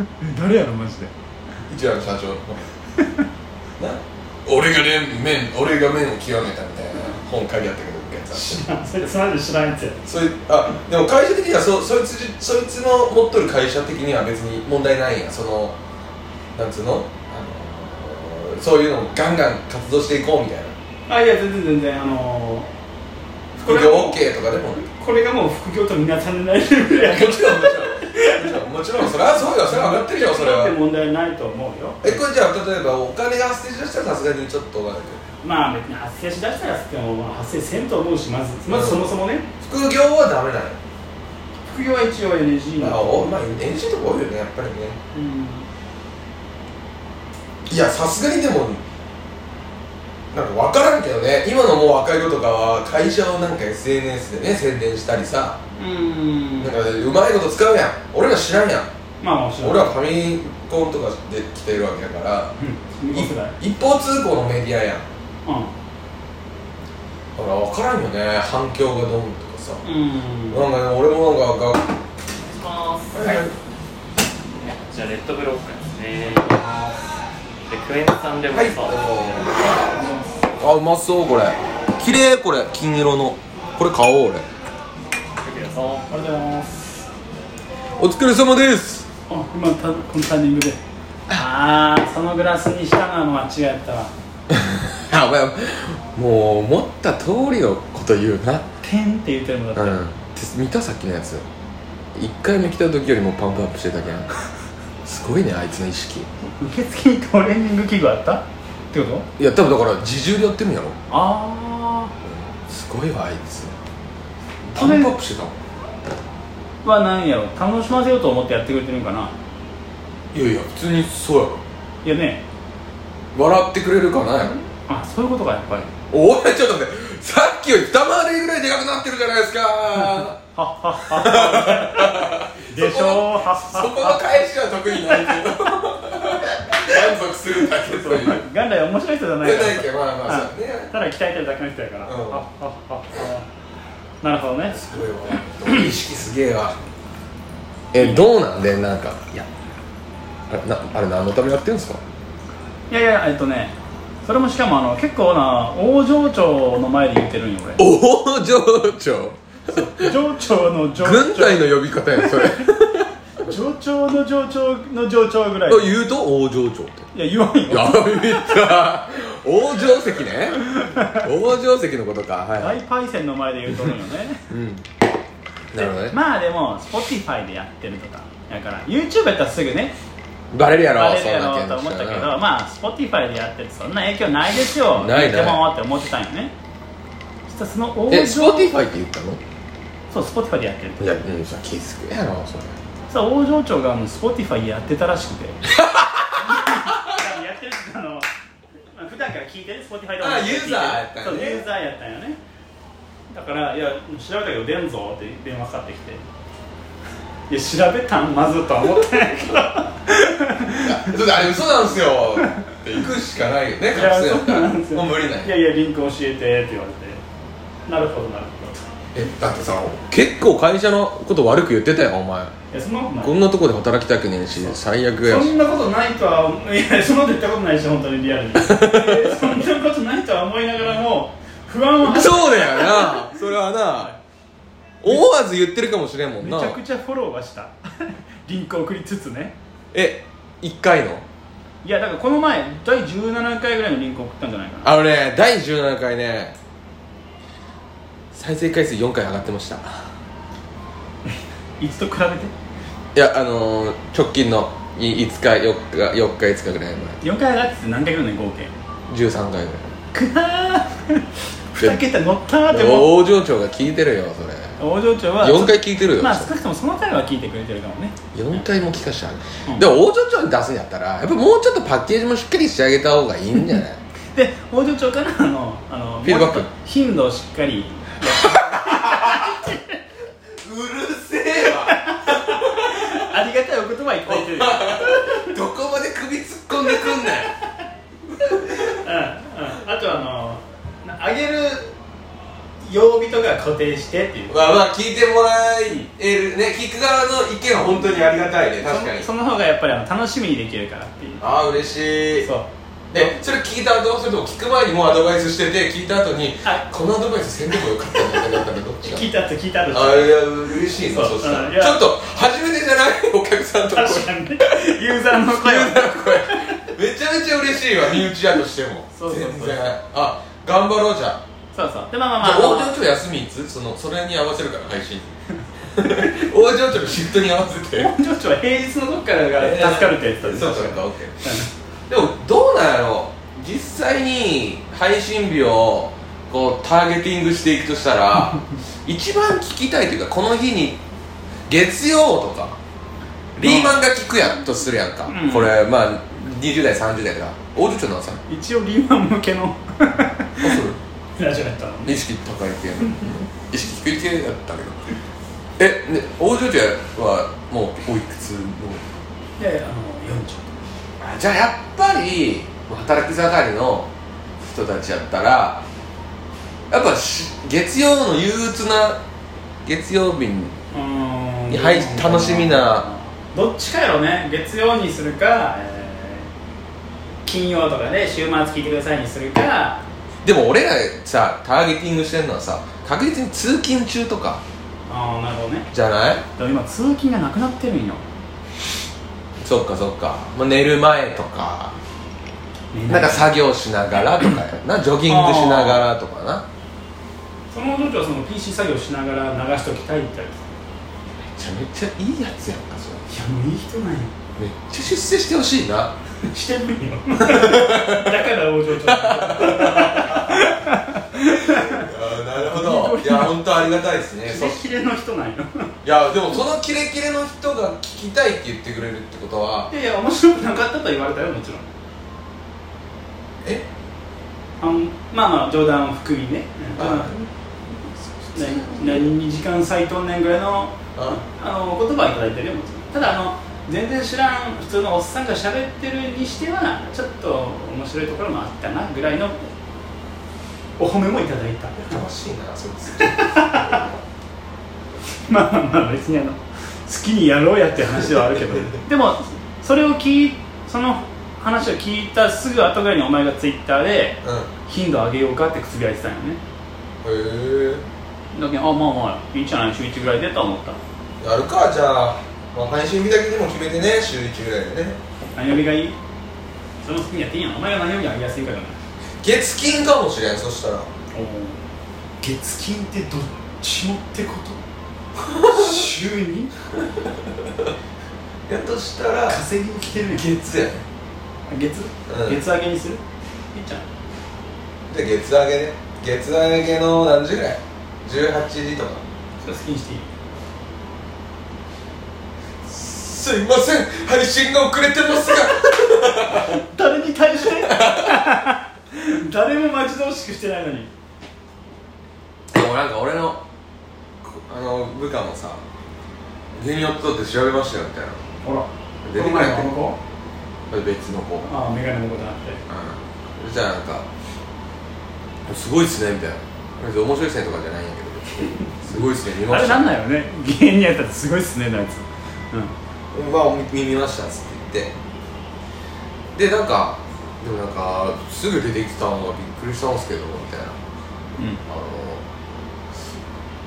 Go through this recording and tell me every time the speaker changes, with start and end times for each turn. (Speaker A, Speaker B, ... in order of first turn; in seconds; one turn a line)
Speaker A: 0.2-1.1
Speaker B: 1.7-2.7
Speaker B: 3.8-8.6
Speaker A: 8.3-10.0
Speaker B: 10.1-15.8
Speaker B: 16.6-20.8
Speaker A: 21.1-22.7
Speaker A: 23.6-24.2
Speaker B: 23.6-24.8
Speaker A: 24.8-32.2
Speaker B: 26.9-30.8
Speaker B: 32.0-35.2
Speaker A: 35.4-39.5
Speaker B: 38.7-39.1
Speaker B: 39.6-40.8
Speaker A: 41.7-43.4
Speaker B: 42.8-45.0
Speaker A: 45.1-45.7
Speaker B: 47.7-48.8
Speaker B: 50.3-55.6
Speaker A: 55.8-56.7
Speaker B: 56.6-58.9
Speaker A: 59.2-60.0
Speaker B: 59.6-62.5
Speaker A: 62.6-63.5
Speaker B: 63.1-65.1
Speaker A: 65.5-65.7
Speaker B: 67.4-69.8
Speaker A: 69.8-70.7
Speaker B: 70.5-71.9
Speaker C: 72.4-73.4
Speaker B: 73.1-73.5
Speaker C: 74.7-77.0
Speaker C: 77.7-79.5
Speaker B: 78.5-79.7
Speaker A: 79.9-80.4
Speaker B: 80.6-84.5
Speaker C: 85.4-86.1
Speaker A: 86.1-86.8
Speaker B: 88.0-89.1
Speaker A: 89.3-90.8
Speaker A: 91.3-94.1
Speaker B: 94.5-98.7
Speaker A: 98.8-100.0
Speaker B: 99.8-101.5
Speaker B: 102.2-104.3
Speaker B: 105.0-106.3
Speaker A: 106.6-109.3
Speaker B: 109.4-111.0
Speaker A: 111.1-112.1
Speaker B: 112.2-113.8
Speaker B: 114.7-115.5
Speaker A: 114.8-115.2
Speaker A: 116.8-119.3
Speaker B: 120.3-121.6
Speaker A: 122.0-122.4
Speaker B: 123.3-124.6
Speaker A: 124.8-125.9
Speaker B: 126.1-130.4
Speaker A: 130.5-134.3
Speaker B: 131.0-138.5
Speaker A: 135.1-135.5
Speaker A: 136.8-143.5
Speaker B: 139.4-140.9
Speaker B: 142.1-142.4
Speaker A: 144.2-144.8
Speaker B: 144.7-146.8
Speaker B: 147.9-149.5
Speaker A: 148.0-148.3
Speaker B: 150.5-152.0
Speaker A: 152.9-157.8
Speaker B: 157.8-160.2
Speaker A: 159.7-162.7
Speaker B: 161.0-163.1
Speaker A: 163.4-166.0
Speaker B: 165.7-167.1
Speaker A: 167.1-168.6
Speaker B: 167.7-172.8
Speaker A: 170.5-171.3
Speaker A: 172.6-174.5
Speaker B: 174.5-174.8
Speaker B: 175.7-176.2
Speaker A: 175.8-180.0
Speaker B: 180.5-182.3
Speaker A: 180.9-186.5
Speaker B: 184.9-185.7
Speaker A: 187.5-188.7
Speaker B: 188.1-189.4
Speaker A: 190.1-191.1
Speaker B: 191.0-192.8
Speaker A: 193.1-195.6
Speaker B: 195.7-197.2
Speaker A: 196.3-198.3
Speaker A: 198.9-202.4
Speaker B: 200.2-201.7
Speaker A: 203.3-206.2
Speaker A: 207.5-211.2
Speaker B: 210.8-215.6
Speaker A: 213.9-217.2
Speaker A: 217.9-218.9
Speaker B: 219.1-222.5
Speaker A: 222.7-223.4
Speaker B: 223.2-225.6
Speaker A: 224.6-234.2
Speaker B: 228.6-229.6
Speaker B: 232.0-234.1
Speaker B: 235.0-236.8
Speaker A: 236.4-239.6
Speaker B: 239.9-241.2
Speaker A: 241.8-244.9
Speaker B: 244.8-246.6
Speaker B: 248.3-250.1
Speaker A: 251.3-252.5
Speaker B: 253.1-257.2
Speaker A: 257.2-258.7
Speaker B: 259.1-259.9
Speaker A: 260.1-263.2
Speaker B: 262.7-264.8
Speaker A: 264.8-268.6
Speaker B: 265.4-266.5
Speaker B: 268.3-274.0
Speaker A: 269.7-269.9
Speaker A: 274.3-280.0
Speaker B: 276.2-276.7
Speaker B: 278.2-279.6
Speaker B: 280.6-283.2
Speaker A: 281.6-285.5
Speaker B: 284.2-287.5
Speaker A: 286.9-287.3
Speaker A: 288.4-291.9
Speaker B: 288.4-289.0
Speaker A: 292.8-294.6
Speaker B: 294.5-299.3
Speaker A: 298.8-301.4
Speaker B: 301.4-302.5
Speaker A: 302.4-303.3
Speaker B: 303.1-309.3
Speaker A: 309.0-312.1
Speaker B: 309.9-321.4
Speaker A: 313.9-316.9
Speaker A: 319.1-319.9
Speaker A: 321.7-322.9
Speaker B: 322.4-325.4
Speaker B: 325.9-328.1
Speaker A: 328.0-331.7
Speaker B: 329.6-331.5
Speaker B: 332.1-341.0
Speaker B: 341.7-342.8
Speaker A: 343.6-344.0
Speaker B: 343.6-348.4
Speaker A: 345.3-345.7
Speaker A: 348.5-350.8
Speaker B: 350.6-351.0
Speaker A: 351.4-352.2
Speaker B: 352.1-355.0
Speaker B: 355.8-359.1
Speaker A: 359.6-360.8
Speaker B: 361.2-365.9
Speaker B: 366.9-369.2
Speaker B: 369.9-370.8
Speaker A: 370.9-376.5
Speaker B: 371.7-373.1
Speaker A: 377.4-380.1
Speaker B: 380.4-384.6
Speaker A: 385.1-385.9
Speaker B: 385.9-386.4
Speaker A: 386.6-388.2
Speaker B: 389.6-392.0
Speaker A: 392.9-393.5
Speaker B: 393.1-396.7
Speaker A: 395.3-396.0
Speaker A: 397.7-400.7
Speaker B: 401.5-403.3
Speaker A: 403.3-404.3
Speaker B: 404.6-406.2
Speaker A: 406.5-413.6
Speaker B: 407.4-410.8
Speaker B: 411.4-414.8
Speaker A: 414.4-415.9
Speaker B: 416.0-419.9
Speaker A: 419.9-421.9
Speaker A: 424.8-427.3
Speaker B: 427.0-427.5
Speaker B: 428.2-429.3
Speaker A: 428.6-439.7
Speaker B: 431.1-431.4
Speaker A: 441.0-442.2
Speaker B: 442.0-444.0
Speaker A: 443.2-444.1
Speaker A: 445.5-456.6
Speaker B: 454.4-454.7
Speaker B: 457.2-458.1
Speaker A: 458.5-461.0
Speaker B: 461.4-465.2
Speaker A: 465.6-466.2
Speaker A: 467.0-469.0
Speaker B: 469.4-471.1
Speaker A: 471.3-471.8
Speaker A: 472.4-474.8
Speaker B: 475.4-476.1
Speaker A: 475.6-476.8
Speaker B: 477.6-477.9
Speaker B: 478.7-479.6
Speaker A: 479.5-480.5
Speaker B: 480.1-481.1
Speaker A: 481.7-483.2
Speaker B: 482.3-482.6
Speaker A: 483.7-484.1
Speaker B: 485.1-489.2
Speaker A: 489.6-490.3
Speaker B: 492.8-496.8
Speaker A: 496.5-501.1
Speaker B: 497.6-498.6
Speaker B: 502.7-503.6
Speaker B: 504.4-505.8
Speaker B: 506.8-508.4
Speaker A: 508.6-510.2
Speaker B: 509.2-509.9
Speaker B: 510.9-511.7
Speaker A: 511.6-512.8
Speaker B: 512.9-514.3
Speaker B: 515.7-520.1
Speaker A: 519.7-522.9
Speaker B: 523.3-525.1
Speaker B: 526.5-531.0
Speaker B: 531.9-532.5